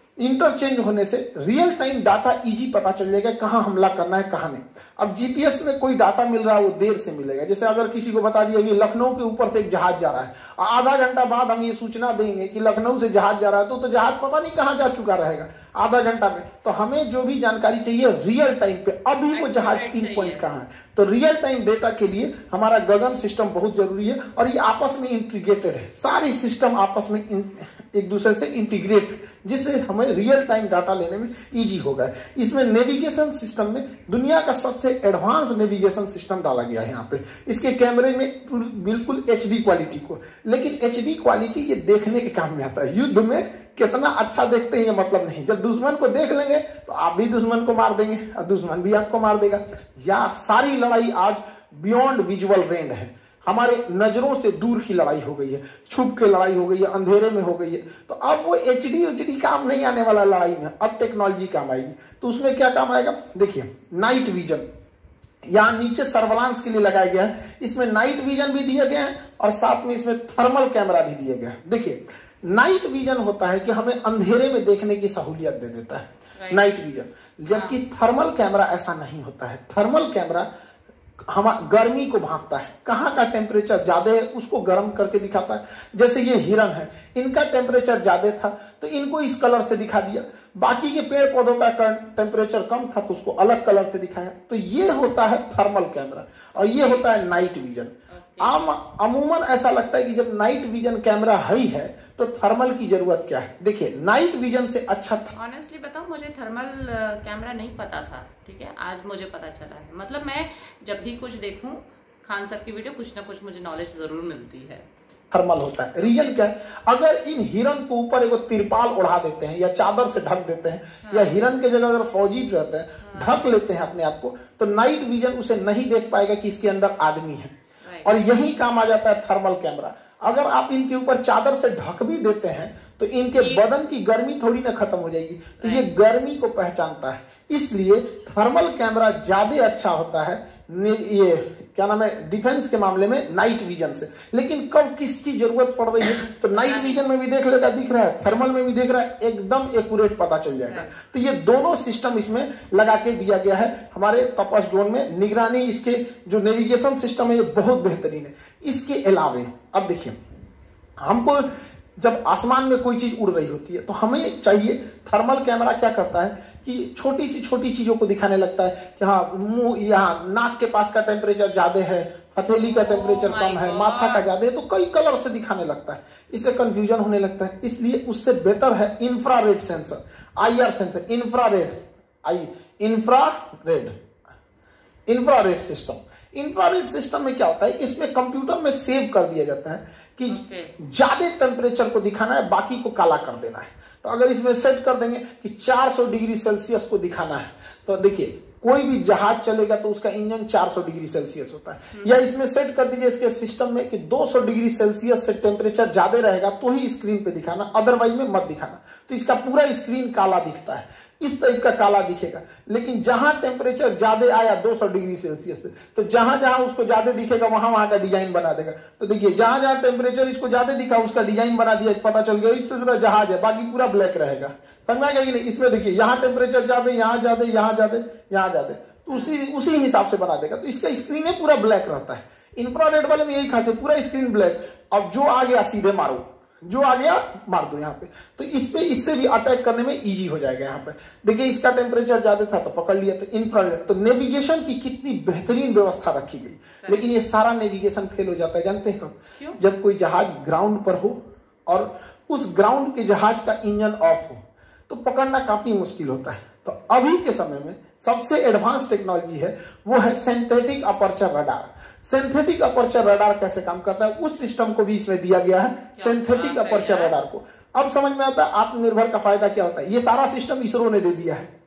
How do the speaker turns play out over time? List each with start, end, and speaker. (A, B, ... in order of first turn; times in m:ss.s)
0:00.2-1:04.7 A
0:19.3-0:20.6 B
1:05.5-1:20.5 A
1:16.4-1:16.7 B
1:17.5-1:17.8 B
1:21.3-1:45.3 A
1:36.6-1:37.1 B
1:38.1-1:38.6 B
1:45.3-1:54.8 B
1:55.3-2:07.5 A
1:56.0-1:56.4 B
2:01.0-2:01.4 B
2:03.0-2:03.5 B
2:07.8-2:08.2 B
2:08.0-2:40.2 A
2:13.3-2:13.6 B
2:15.6-2:15.9 B
2:26.5-2:27.0 B
2:30.7-2:30.9 B
2:41.0-3:03.9 A
2:52.6-2:54.2 B
3:05.1-4:31.5 A
3:10.3-3:10.7 B
3:21.9-3:22.2 B
3:49.1-3:49.4 B
4:06.8-4:07.1 B
4:26.0-4:27.2 B